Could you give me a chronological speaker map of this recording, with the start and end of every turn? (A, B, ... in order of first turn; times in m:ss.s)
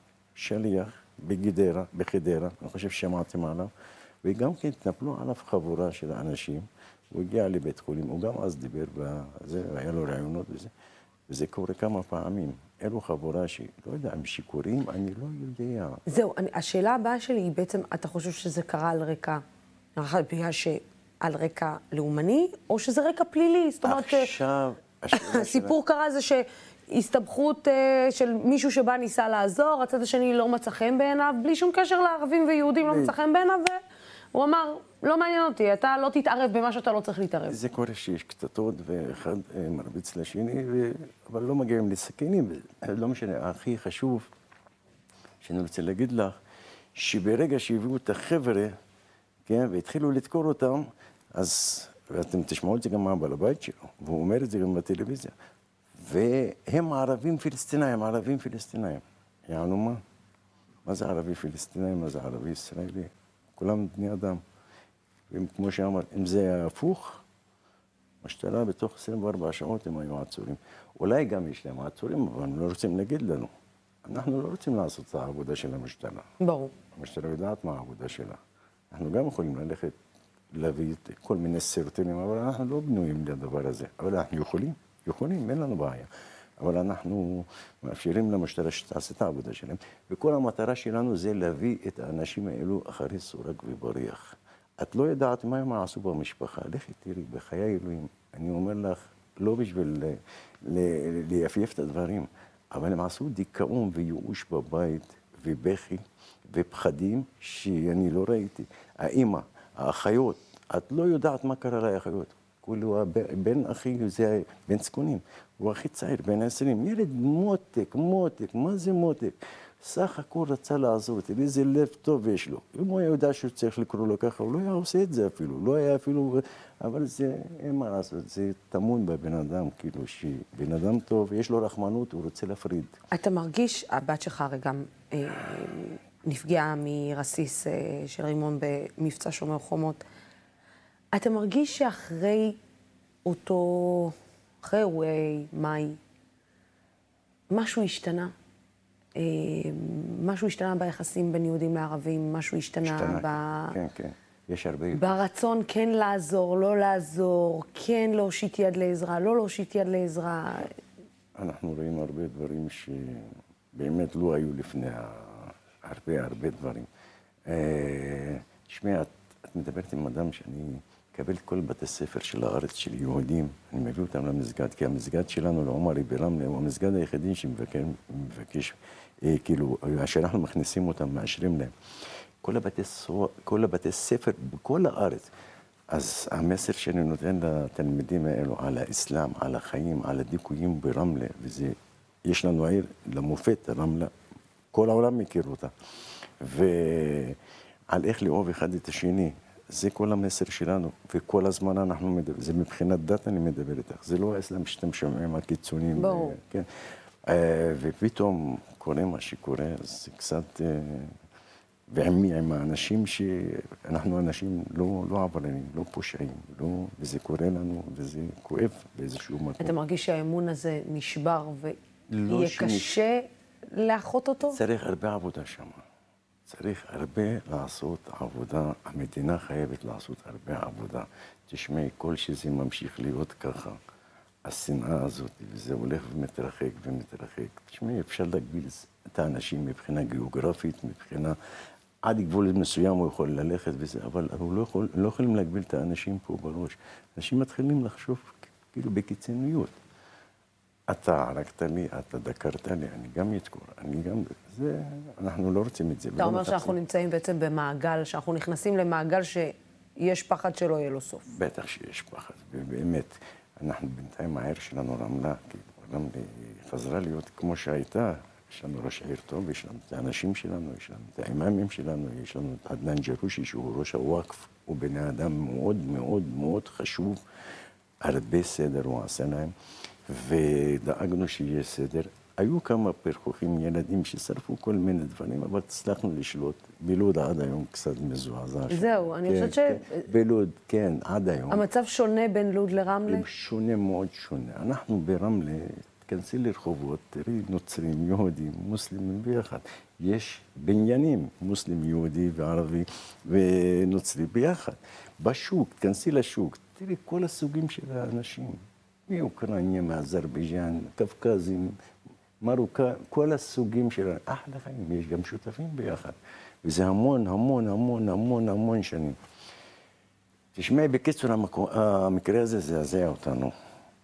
0:00.4-0:03.7 A
0:04.2-0:10.7 A
0:11.3-0:16.0 A
0:16.1-0:19.4 B
0:20.0-0:24.3 B
0:23.8-0:25.7 A
0:25.1-0:33.8 B
0:32.8-0:33.1 A
0:34.3-0:37.6 B
0:37.5-0:44.3 A
0:45.4-0:46.3 A
0:47.0-0:48.7 A
0:49.4-0:55.3 A
0:56.0-1:00.0 A
1:00.8-1:04.4 A
1:05.3-1:07.2 A
1:08.2-1:13.5 A
1:14.0-1:16.3 A
1:16.4-1:16.7 B
1:16.9-1:18.4 A
1:18.9-1:20.0 A
1:20.5-2:13.0 A
2:13.1-2:20.0 B
2:21.1-2:22.6 B
2:23.2-2:26.0 B
2:27.5-2:28.3 B
2:29.2-2:33.8 B
2:32.8-2:35.2 A
2:34.9-2:40.8 B
2:41.4-2:46.9 A
2:47.5-3:01.7 A
3:02.4-3:05.3 A
3:05.9-3:14.1 A
3:14.7-3:15.7 A
3:16.4-3:17.4 A
3:17.9-3:26.7 A
3:26.0-3:26.4 B
3:27.3-3:31.1 A
3:31.9-3:39.7 A
3:39.6-3:41.8 B
3:42.1-3:43.0 A
3:42.3-3:44.6 B
3:44.5-3:45.8 A
3:46.5-3:53.8 A
3:54.4-4:01.4 A
4:02.0-4:09.8 A
4:10.9-4:16.8 A
4:16.2-4:21.3 B
4:21.3-4:37.2 A
4:38.0-4:39.5 A
4:40.1-4:51.6 A
4:48.7-4:50.0 B
4:51.5-4:53.2 B
4:53.1-5:11.7 A
5:12.4-5:19.2 A
5:20.5-5:23.5 A